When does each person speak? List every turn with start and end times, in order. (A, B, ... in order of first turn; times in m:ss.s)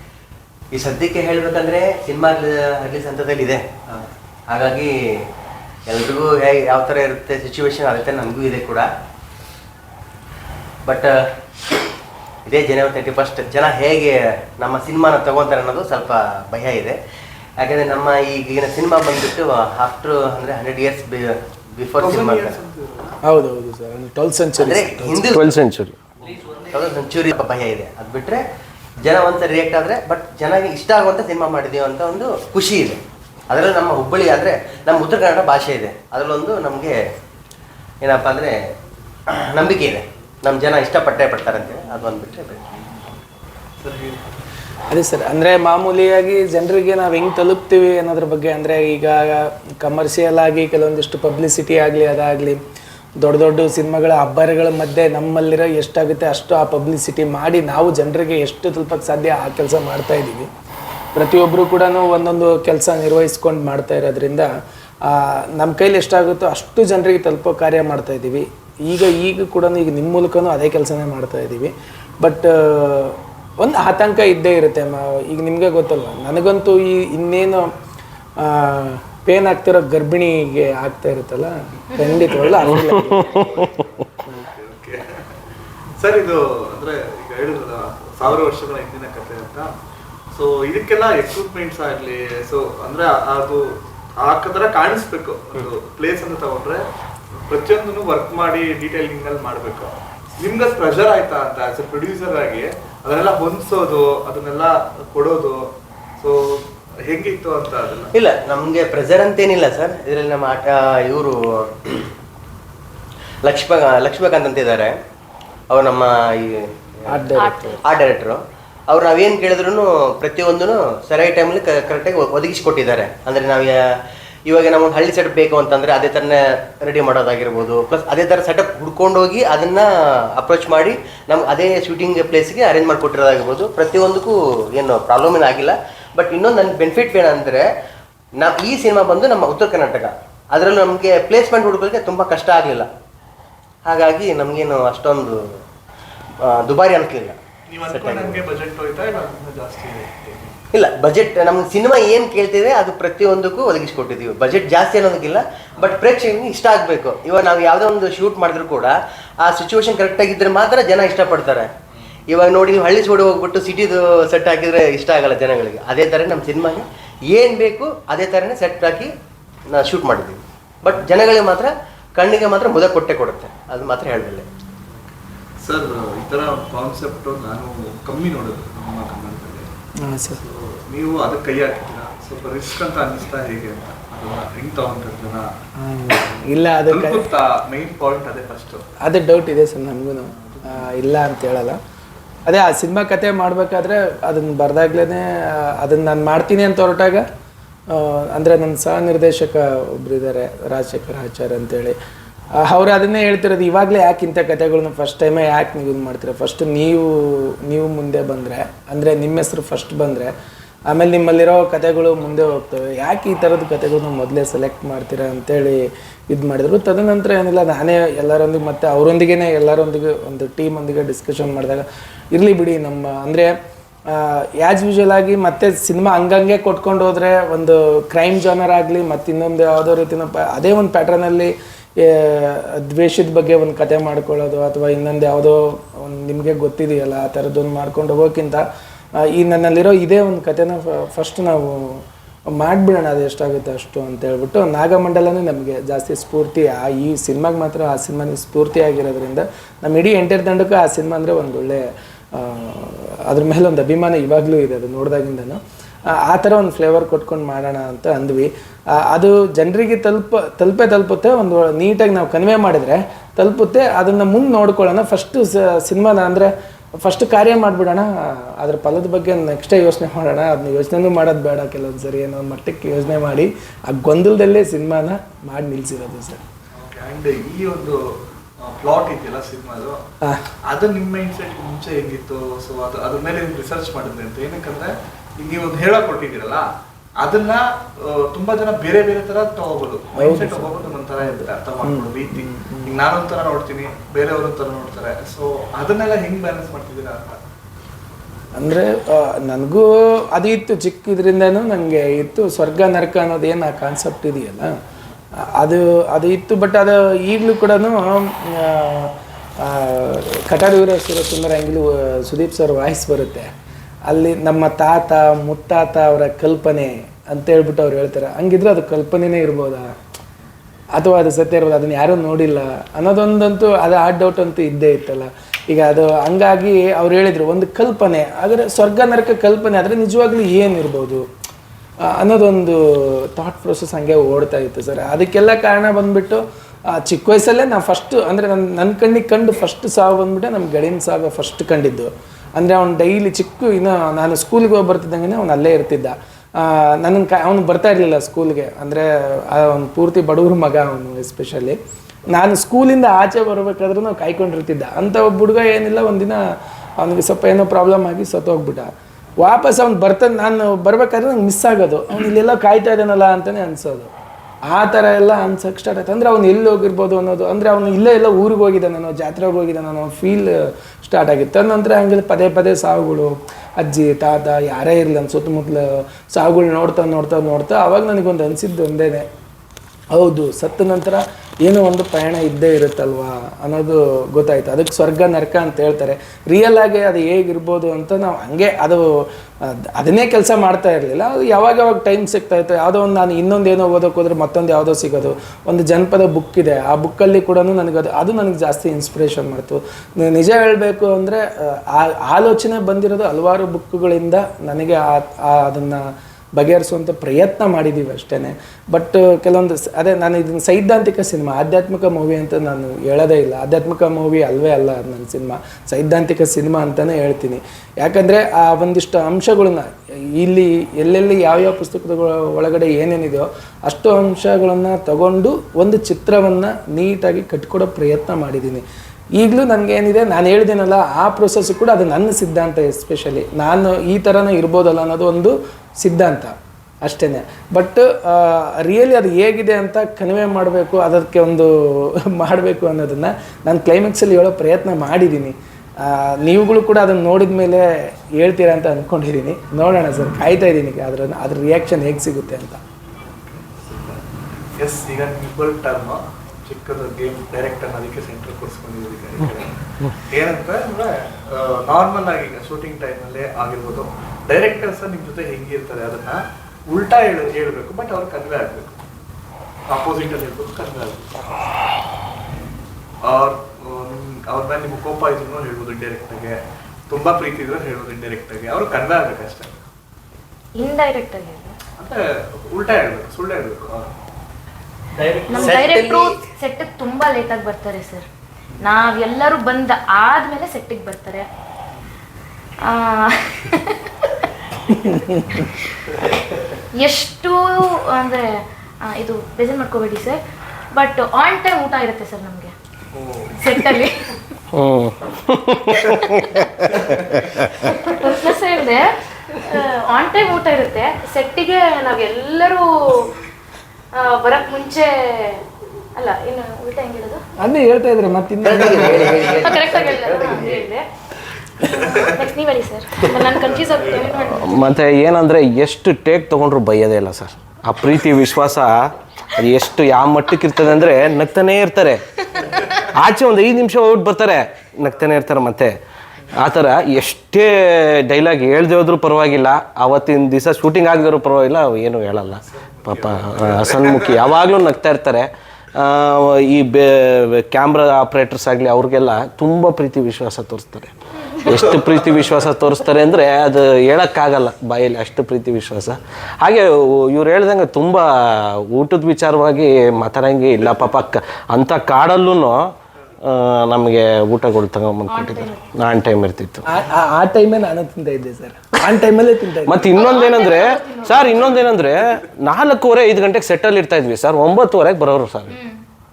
0:00.7-0:03.6 A
0:04.5-0:04.9 A
0:05.9-0:08.9 A
0:10.8-0:11.1 A
0:12.4-0:17.0 A
0:17.6-0:22.6 A
0:22.0-0:23.2 B
0:23.2-0:25.3 C
0:24.6-0:25.5 A
0:25.3-0:26.0 D
0:26.4-0:26.7 B
0:26.5-0:28.4 A
0:29.0-0:37.0 A
0:38.0-0:38.5 A
0:39.4-0:42.6 A
0:41.4-0:43.2 B
0:43.8-0:44.3 B
0:44.9-0:52.6 C
0:53.2-1:00.5 C
1:01.1-1:04.5 C
1:05.0-1:17.7 C
1:18.4-1:23.6 C
1:21.9-1:22.3 E
1:22.4-1:25.0 B
1:22.6-1:23.8 D
1:26.0-1:29.7 B
1:30.3-1:36.8 B
1:37.5-1:45.7 B
1:46.2-1:48.1 B
1:48.1-1:52.1 A
1:53.4-1:55.0 A
1:55.7-1:57.2 A
1:57.1-1:57.8 C
1:57.3-1:57.8 E
1:57.8-2:03.8 A
2:04.5-2:17.6 A
2:18.4-2:22.9 A
2:23.9-2:25.4 A
2:26.4-2:27.4 A
2:27.7-2:30.6 B
2:27.9-2:28.4 A
2:30.7-2:41.7 A
2:35.8-2:36.0 B
2:42.3-2:49.1 A
2:49.7-2:54.4 A
2:55.6-2:59.7 B
3:00.0-3:00.4 C
3:00.4-3:05.5 B
3:05.8-3:07.2 C
3:06.8-3:08.8 B
3:09.0-3:11.8 C
3:10.4-3:10.9 B
3:12.4-3:17.2 C
3:17.9-3:22.0 C
3:22.6-3:30.3 C
3:30.9-3:43.5 C
3:44.1-3:58.6 C
3:59.3-4:02.0 C
4:02.6-4:11.8 C
4:12.3-4:15.6 C
4:16.1-4:18.5 C
4:19.1-4:26.5 C
4:27.0-4:36.4 C
4:36.7-4:38.0 B
4:38.6-4:40.0 B
4:40.7-4:46.6 B
4:47.2-4:57.4 B
4:50.1-4:53.0 C
4:58.6-5:04.7 C
5:05.6-5:13.5 C
5:14.0-5:19.9 C
5:20.9-5:31.2 C
5:32.1-5:51.8 C
5:52.3-5:56.4 C
5:57.0-6:04.1 C
6:04.7-6:19.2 C
6:20.1-6:29.0 C
6:29.6-7:08.8 C
7:09.4-7:16.5 C
7:17.0-7:27.8 C
7:28.4-7:32.8 C
7:33.2-7:34.2 B
7:34.8-7:39.8 B
7:40.3-7:49.0 B
7:49.9-7:51.3 B
7:53.2-7:56.6 B
7:57.1-7:59.8 B
8:00.8-8:01.7 E
8:02.0-8:04.1 B
8:05.2-8:05.7 B
8:05.5-8:08.2 E
8:05.6-8:06.3 A
8:08.8-8:11.5 E
8:12.9-8:14.0 E
8:14.9-8:15.6 C
8:17.0-8:18.4 E
8:19.1-8:20.4 E
8:20.9-8:22.7 E
8:23.1-8:23.5 B
8:23.6-8:24.3 E
8:24.7-8:27.1 D
8:26.9-8:27.8 B
8:27.8-8:33.4 E
8:34.1-8:35.6 E
8:36.1-8:37.4 E
8:37.6-8:39.6 C
8:38.6-8:40.9 A
8:39.1-8:39.4 B
8:39.6-8:41.0 E
8:41.8-8:44.9 E
8:43.5-8:44.5 B
8:44.5-8:52.2 D
8:52.6-8:53.1 B
8:53.1-8:56.0 D
8:56.5-9:11.1 D
9:02.6-9:04.5 B
9:11.6-9:22.9 D
9:11.7-9:12.5 B
9:23.4-9:26.8 D
9:25.3-9:25.9 E
9:26.8-9:30.2 C
9:29.8-9:35.7 D
9:30.0-9:31.8 E
9:35.7-9:36.0 E